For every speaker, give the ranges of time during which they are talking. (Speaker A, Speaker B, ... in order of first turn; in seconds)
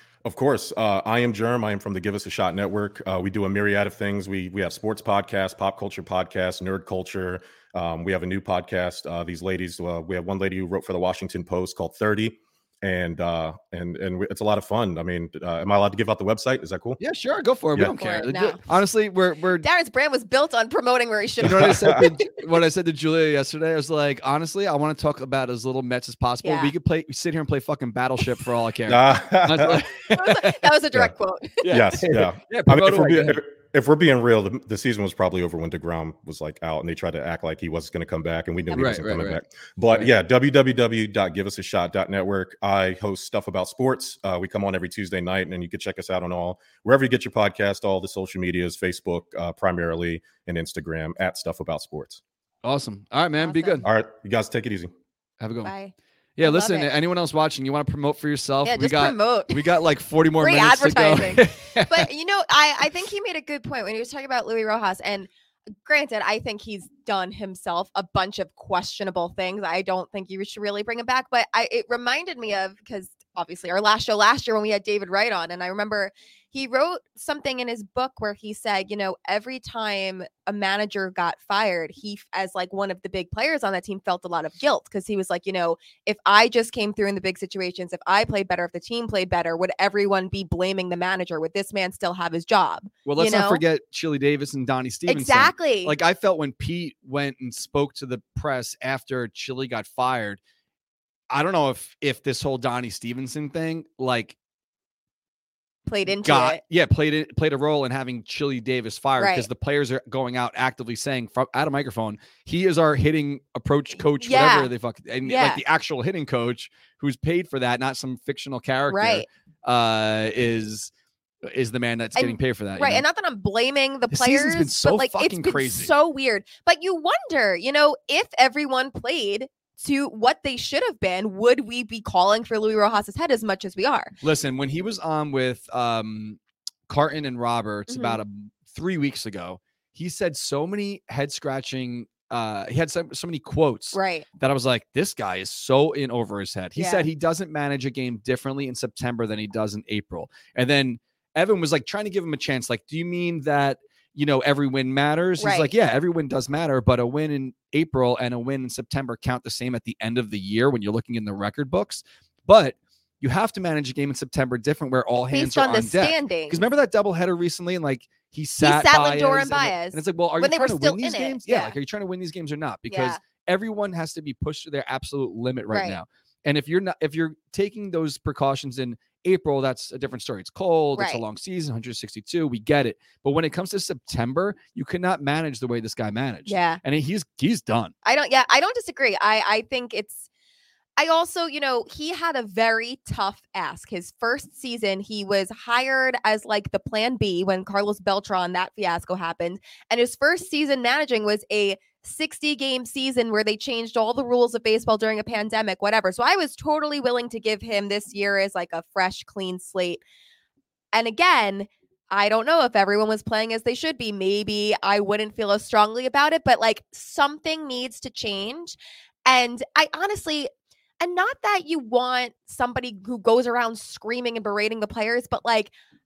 Speaker A: 0.2-17.0, 21.4-22.1, 28.9-29.9, 31.7-52.2, 53.8-54.9
Speaker B: 17.0-19.6, 21.4-30.7, 31.6-33.4, 38.7-39.4, 52.6-53.9, 55.4-55.7, 56.4-62.1, 93.0-100.4, 101.3-104.3, 106.2-120.9, 121.4-123.0, 124.1-125.9, 134.2-187.9
Speaker C: 17.8-18.6, 19.6-22.2, 26.4-26.7, 30.1-31.9, 53.4-53.8, 55.6-56.9, 58.6-59.8, 60.4-65.3, 65.8-93.6, 95.1-96.0, 105.9-106.6, 109.2-109.5, 114.0-114.7, 115.2-115.6, 118.9-119.2, 122.2-134.1, 137.9-138.2, 143.9-144.2, 146.8-147.1, 155.4-155.7, 165.3-166.6, 168.6-171.8, 172.9-173.2, 175.7-176.0, 180.9-181.2, 186.5-186.8, 188.0-190.2, 191.0-210.0, 210.9-225.7